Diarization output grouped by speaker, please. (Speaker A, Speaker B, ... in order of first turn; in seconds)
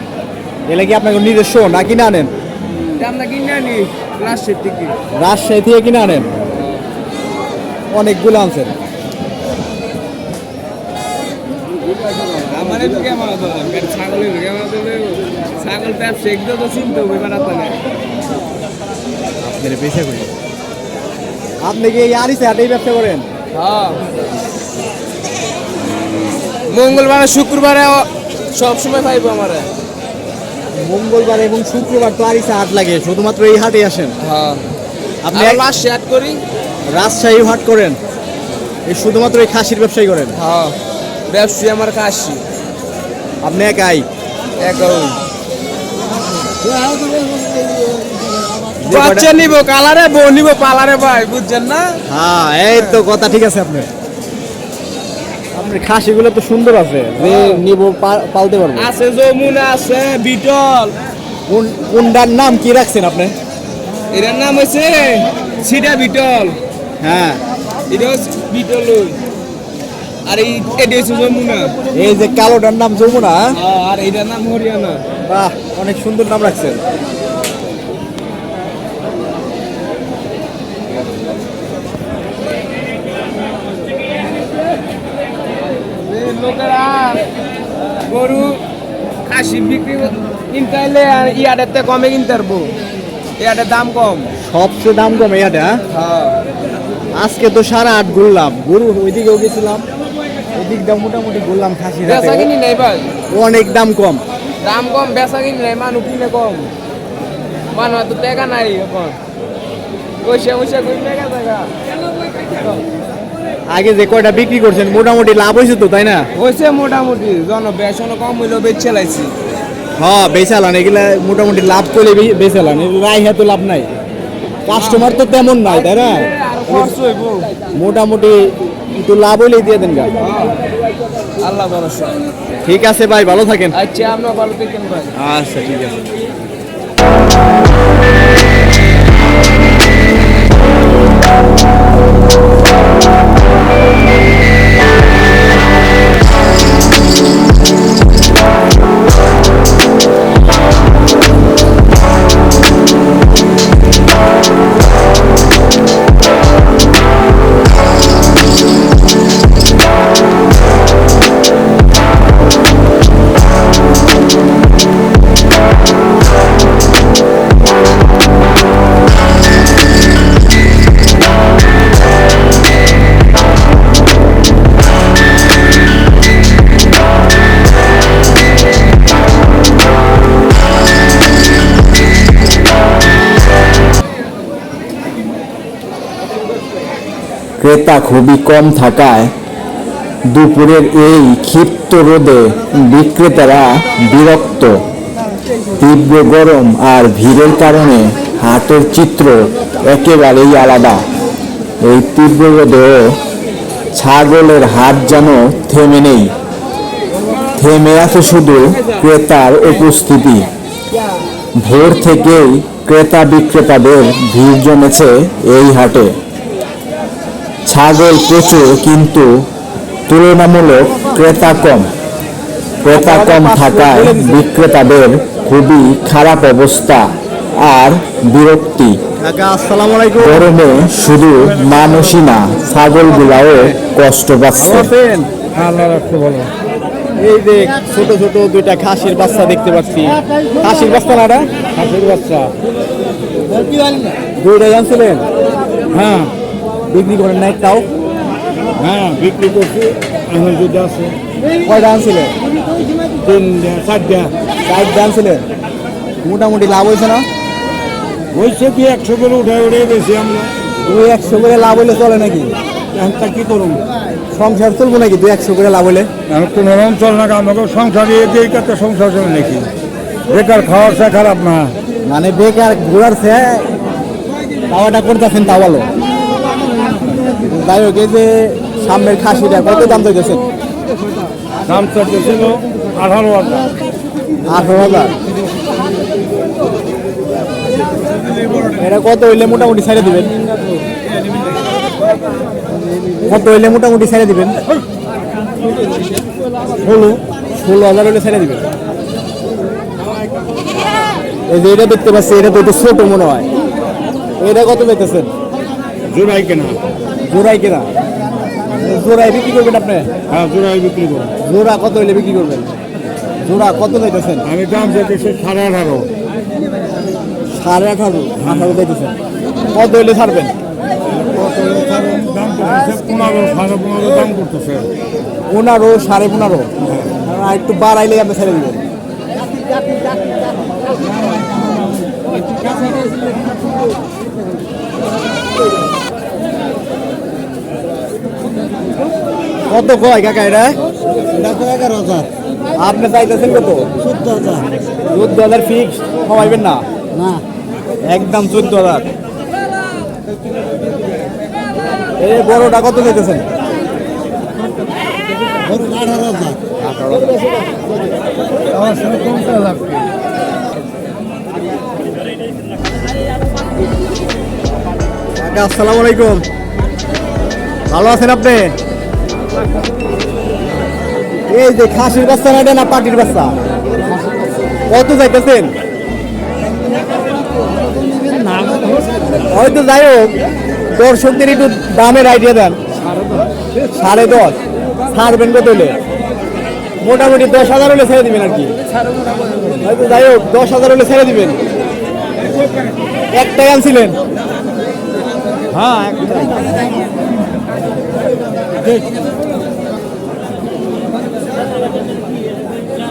Speaker A: 0.7-2.3, 5.1-6.3, 7.9-8.7, 19.4-20.3, 21.6-23.3, 30.7-34.1, 35.2-35.6, 36.9-38.0, 38.9-40.4, 43.4-44.0, 48.8-49.2, 52.1-53.9, 55.5-58.9, 61.5-63.3, 67.0-67.4, 71.9-73.5, 75.3-76.8, 94.4-95.8, 97.2-99.8, 100.5-102.5, 103.3-104.2, 113.7-116.2, 120.0-123.9, 124.7-126.9, 127.8-128.4, 128.9-130.1, 132.7-133.8, 135.2-136.0, 222.9-224.4, 229.2-230.4, 233.3-233.7, 234.5-235.3, 237.2-241.5, 244.4-245.2, 246.9-247.8, 251.6-252.3, 254.7-255.4, 256.2-257.3, 260.9-262.5, 264.3-266.1, 272.1-273.7, 274.7-275.9, 277.5-280.4, 284.5-285.1, 288.8-290.3, 293.2-294.6, 296.8-298.6, 301.5-303.5, 304.4-305.3, 307.3-307.9, 308.8-310.1, 311.4-312.7, 313.4-314.4, 317.5-319.2, 319.7-320.5, 325.5-326.7, 327.2-328.8, 339.7-340.8, 342.8-343.9, 345.1-346.8, 348.1-349.0, 352.2-353.4, 356.8-357.3, 365.4-366.4, 367.9-368.7, 371.5-373.5, 374.9-375.7, 379.5-380.4, 380.9-382.8, 383.9-384.6, 385.1-386.0, 387.0-388.7, 389.8-391.6, 393.3-394.1, 395.7-396.6
Speaker B: 3.0-5.0, 6.5-6.8, 12.5-17.8, 23.5-24.0, 26.7-29.7, 34.2-34.6, 35.3-36.4, 40.4-40.7, 41.3-42.4, 44.6-45.2, 48.9-52.0, 57.2-57.6, 58.8-60.9, 64.1-66.6, 67.9-69.2, 70.2-71.7, 73.5-75.0, 85.9-87.3, 88.0-88.6, 89.2-92.7, 93.4-94.3, 95.9-96.3, 102.0-103.1, 104.6-106.7, 107.7-109.2, 110.2-111.7, 112.3-112.8, 116.3-119.3, 124.7-125.1, 126.1-127.5, 130.2-130.6, 131.4-132.2, 133.7-135.1
Speaker C: 187.6-189.3, 190.3-194.8, 195.8-201.1, 201.8-203.2, 203.9-206.3, 207.6-210.5, 211.6-216.2, 217.7-219.5, 220.1-221.9, 222.8-229.0, 230.2-234.9
Speaker D: 235.5-236.5, 241.7-242.5, 245.9-246.3, 248.8-251.2, 253.2-254.3, 258.3-260.5, 262.9-263.8, 266.3-269.7, 270.3-271.7, 281.6-283.7, 306.1-306.8, 310.3-311.3, 314.4-316.1, 318.4-318.7, 321.1-324.9, 326.8-327.1